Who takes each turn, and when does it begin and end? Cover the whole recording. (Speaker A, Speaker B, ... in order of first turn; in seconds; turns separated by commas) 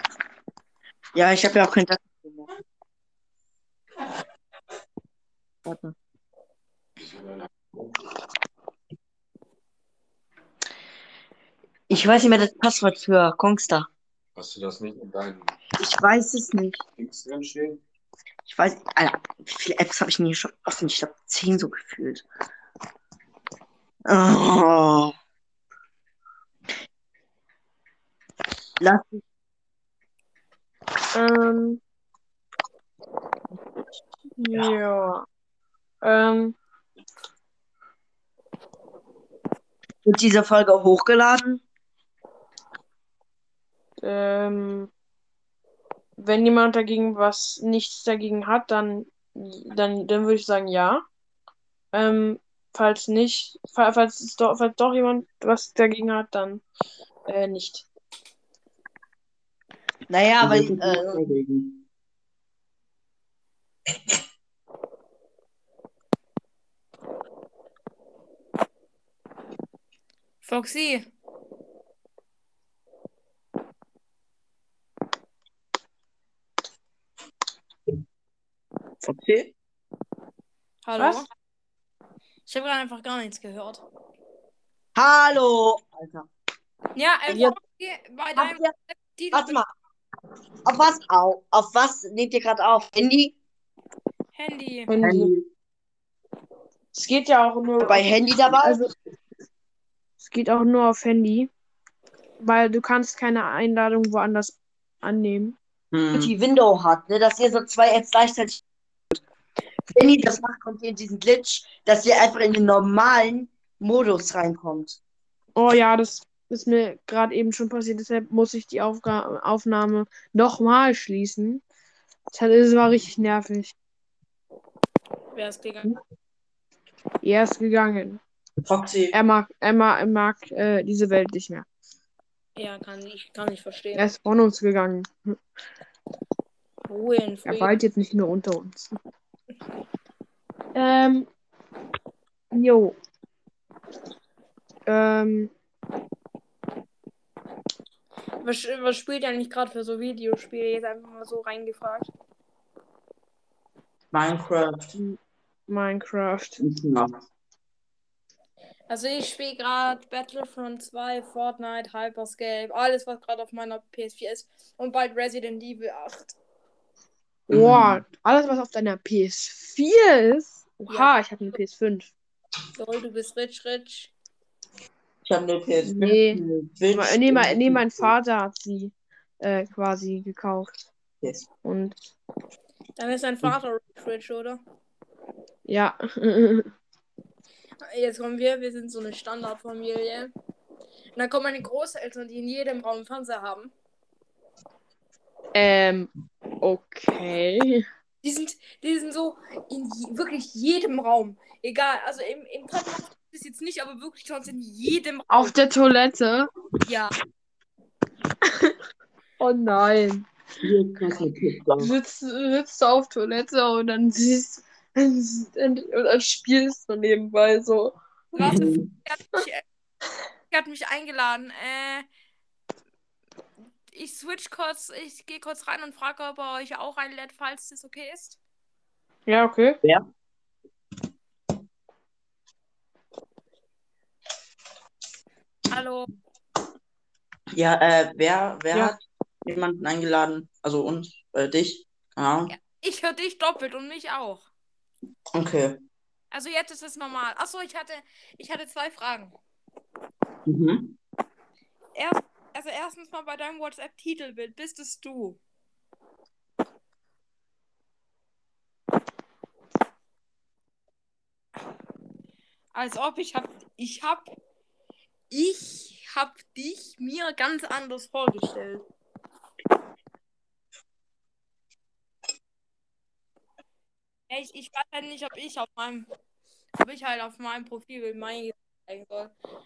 Speaker A: 1.1-2.5, Speaker A: 5.6-5.9, Speaker B: 7.0-7.9, Speaker A: 11.9-13.9, Speaker B: 14.3-15.5, Speaker A: 15.8-16.8, Speaker B: 17.0-17.8, Speaker A: 18.4-22.2, Speaker A: 24.1-25.1, Speaker A: 28.8-29.2, Speaker C: 31.1-31.8, Speaker C: 34.4-35.2, Speaker C: 36.0-36.6, Speaker A: 40.0-41.6, Speaker C: 44.0-44.9, Speaker C: 46.2-51.0, Speaker C: 51.9-56.6, Speaker C: 57.3-57.9, Speaker A: 60.1-61.2, Speaker D: 60.4-61.8, Speaker E: 70.4-71.1, Speaker D: 79.0-79.5, Speaker E: 80.8-81.3, Speaker C: 81.0-81.2, Speaker E: 82.5-83.8, Speaker A: 84.9-86.3, Speaker E: 86.9-89.6, Speaker A: 88.3-88.7, Speaker A: 89.3-89.7, Speaker A: 90.6-93.3, Speaker E: 94.3-94.9, Speaker C: 94.9-95.3, Speaker D: 95.0-95.5, Speaker C: 96.9-98.9, Speaker A: 97.8-98.9, Speaker C: 100.2-101.5, Speaker C: 102.4-105.5, Speaker D: 105.9-106.3, Speaker A: 106.1-108.6, Speaker A: 109.9-115.0, Speaker C: 115.5-121.6, Speaker C: 122.3-123.7, Speaker E: 125.3-125.9, Speaker C: 127.2-128.2, Speaker D: 128.7-129.2, Speaker C: 129.1-131.7, Speaker E: 132.6-134.1, Speaker C: 133.9-135.4, Speaker E: 136.9-137.7, Speaker C: 137.5-138.9, Speaker C: 140.7-141.3, Speaker C: 142.5-142.9, Speaker C: 144.8-145.5, Speaker E: 148.4-152.1, Speaker D: 154.1-155.0, Speaker C: 155.7-156.6, Speaker D: 156.6-157.1, Speaker E: 158.9-166.3, Speaker C: 167.5-172.1, Speaker D: 167.5-168.0, Speaker E: 170.9-171.5, Speaker E: 172.8-174.1, Speaker D: 175.2-178.1, Speaker C: 175.8-176.4, Speaker C: 176.9-180.7, Speaker D: 181.2-181.5, Speaker C: 181.6-182.0, Speaker E: 183.0-184.6, Speaker C: 185.7-186.7, Speaker E: 187.9-190.3, Speaker E: 191.1-193.7, Speaker C: 195.5-196.1, Speaker C: 196.6-197.8, Speaker E: 198.2-205.5, Speaker C: 205.3-206.5, Speaker E: 206.8-207.1, Speaker C: 208.4-208.8, Speaker C: 209.4-210.3, Speaker D: 210.6-211.9, Speaker C: 211.8-218.7, Speaker E: 218.3-219.6, Speaker D: 218.4-218.9, Speaker E: 220.5-222.1, Speaker E: 223.9-228.4, Speaker C: 229.3-229.8, Speaker E: 235.7-236.1, Speaker D: 237.5-242.5, Speaker E: 242.5-244.5, Speaker D: 245.3-245.8, Speaker E: 246.3-249.4, Speaker D: 250.4-250.9, Speaker E: 251.9-255.4, Speaker E: 262.7-264.2, Speaker E: 265.3-268.9, Speaker E: 274.3-276.1, Speaker E: 276.8-279.3